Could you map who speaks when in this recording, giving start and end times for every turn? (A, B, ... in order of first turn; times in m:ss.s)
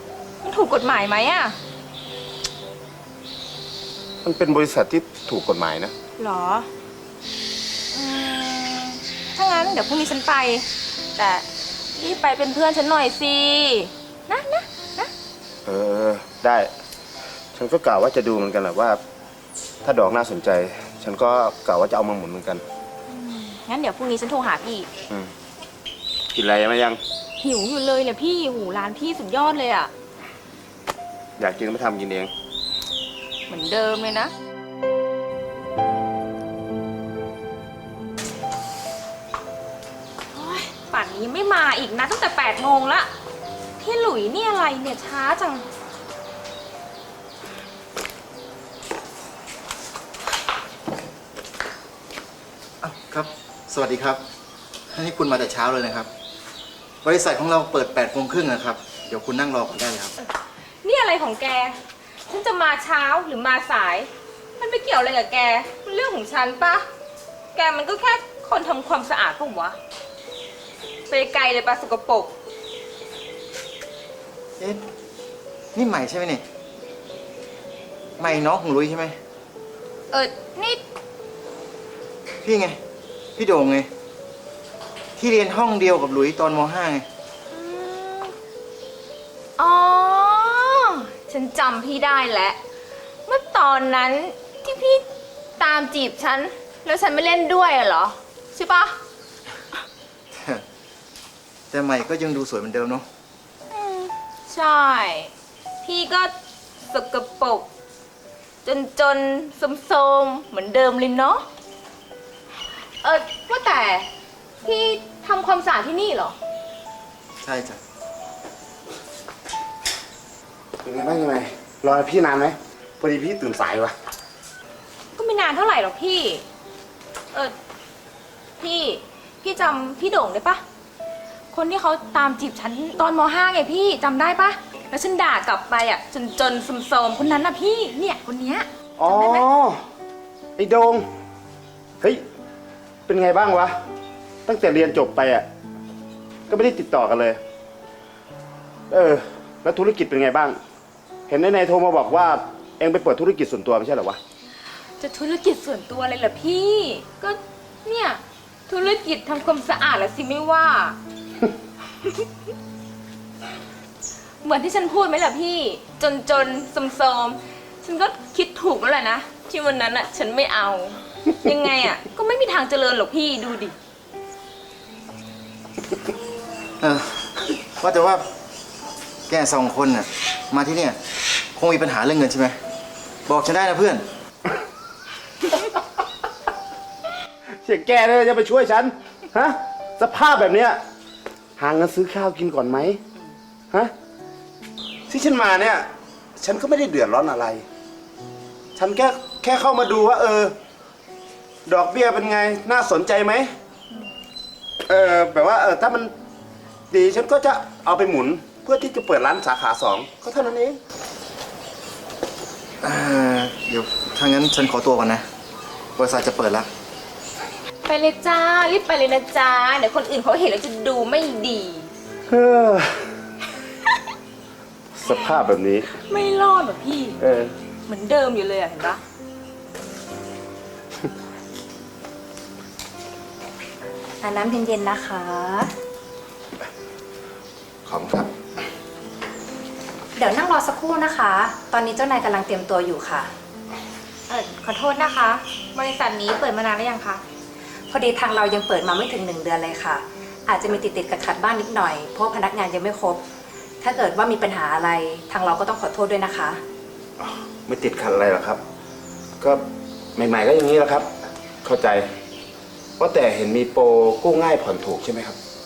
0:00.4-0:01.6 A
0:04.2-0:05.9 B
0:06.2-0:06.7 A
0:07.9-0:15.1 A
0:15.6-0:16.7 B
0:17.5-0:19.0 B
0:19.8-0:22.6 B
0:23.1-0:24.9 A
0:26.3-0:27.0 B
0:27.4-0:29.9 A
0:31.4-0:32.3 B
0:33.5-0:34.3 A
0:40.3-0:43.1 A
0:43.8-0:45.6 A
0:52.8-0:54.2 C
0:54.9-0:56.1 C
0:57.0-1:00.1 C
1:00.8-1:06.8 A
1:07.5-1:09.8 A
1:11.1-1:12.3 A
1:15.7-1:16.4 C
1:18.2-1:19.2 C
1:20.1-1:20.8 A
1:22.4-1:22.8 C
1:23.4-1:23.9 C
1:25.2-1:27.0 C
1:27.5-1:28.3 A
1:29.6-1:32.6 A
1:33.3-1:35.0 A
1:35.6-1:39.0 A
1:40.3-1:40.6 C
1:41.7-1:43.0 C
1:43.7-1:45.3 A
1:45.8-1:46.3 A
1:46.9-1:47.7 A
1:48.6-1:51.4 A
1:53.0-1:54.1 A
1:54.6-1:56.4 A
1:57.4-1:57.8 C
2:00.8-2:03.9 B
2:05.1-2:06.4 A
2:08.6-2:10.6 A
2:11.5-2:19.4 A
2:19.0-2:19.8 B
2:20.6-2:21.0 B
2:23.0-2:23.7 B
2:24.4-2:25.4 B
2:26.5-2:27.4 B
2:28.9-2:30.6 B
2:31.3-2:34.2 B
2:35.0-2:41.0 A
2:44.4-2:53.7 A
2:56.8-2:57.3 C
2:57.8-2:58.2 C
2:59.3-3:01.0 C
3:01.6-3:02.6 C
3:03.3-3:04.1 C
3:07.6-3:10.8 B
3:11.6-3:13.0 B
3:15.1-3:17.6 B
3:18.7-3:20.6 B
3:21.7-3:23.5 B
3:24.9-3:26.1 B
3:26.9-3:30.8 B
3:32.8-3:35.2 C
3:36.0-3:36.7 C
3:37.8-3:41.9 A
3:42.3-3:43.1 B
3:44.9-3:45.9 B
3:45.1-3:45.3 A
3:45.9-3:47.2 A
3:47.2-3:47.5 B
3:47.9-3:49.0 A
3:54.2-3:55.7 D
3:57.8-3:58.3 B
4:00.2-4:03.3 D
4:04.3-4:07.2 A
4:07.9-4:13.2 D
4:13.8-4:16.6 D
4:17.2-4:18.6 B
4:19.4-4:21.1 B
4:21.6-4:22.1 B
4:23.0-4:25.4 B